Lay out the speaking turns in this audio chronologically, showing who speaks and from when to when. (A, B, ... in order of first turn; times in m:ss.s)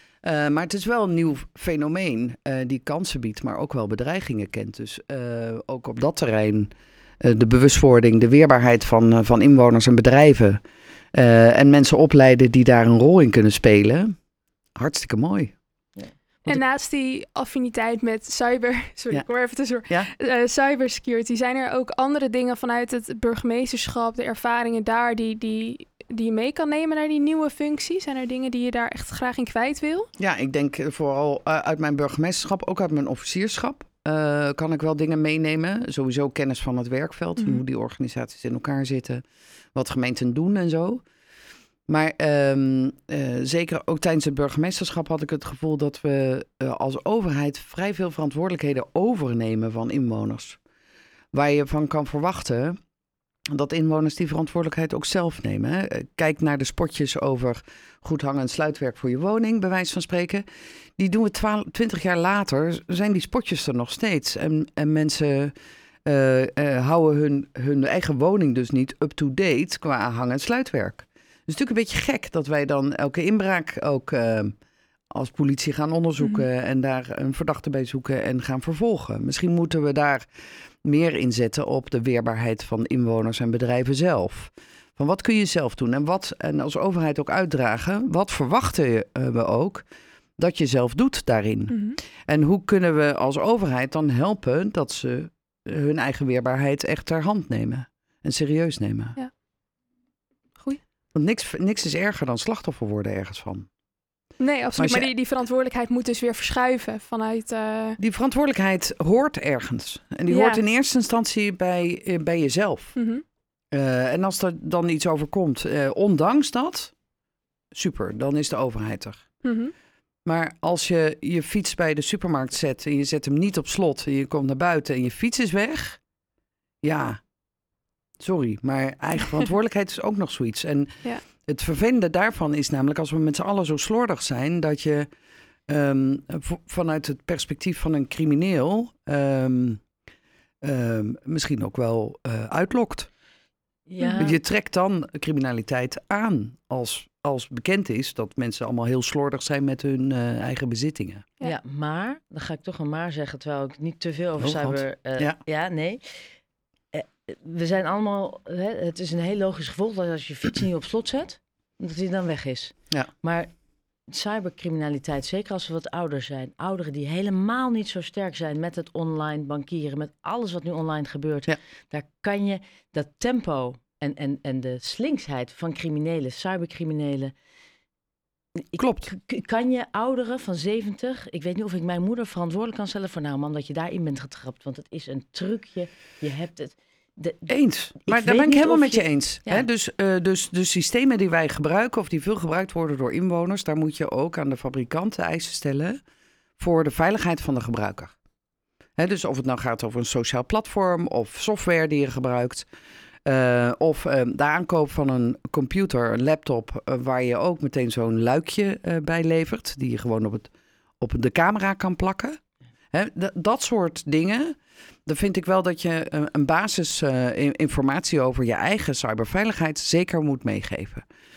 0:00.2-0:10.6 A
0:11.1-0:14.1 A
0:14.8-0:15.5 A
0:16.0-0:16.6 B
0:16.5-0:30.1 C
0:30.2-0:39.2 A
0:37.4-0:37.6 C
0:39.7-0:41.0 A
0:41.9-0:50.6 A
0:51.3-0:52.8 A
0:53.5-1:00.4 A
1:01.0-1:05.5 A
1:06.0-1:14.5 A
1:15.1-1:20.3 A
1:16.2-1:16.5 C
1:20.8-1:29.8 A
1:30.4-1:39.2 A
1:31.7-1:32.0 C
1:41.1-1:43.7 A
1:44.4-1:48.0 C
1:44.7-1:45.1 A
1:48.0-1:52.9 A
1:50.3-1:50.6 C
1:52.9-1:53.2 C
1:53.7-1:56.9 A
1:57.7-1:59.2 A
1:59.4-1:59.7 C
2:00.2-2:06.0 A
2:06.8-2:07.2 A
2:08.2-2:15.1 A
2:15.7-2:19.8 A
2:20.6-2:23.1 A
2:23.9-2:24.4 B
2:24.2-2:31.2 A
2:31.4-2:36.3 B
2:34.4-2:35.4 A
2:36.9-2:43.5 B
2:44.1-2:57.3 B
2:58.7-3:07.5 B
2:58.8-2:59.1 A
3:07.5-3:16.0 A
3:08.0-3:09.7 B
3:16.6-3:18.1 A
3:19.0-3:22.7 A
3:23.2-3:32.4 A
3:32.9-3:41.0 A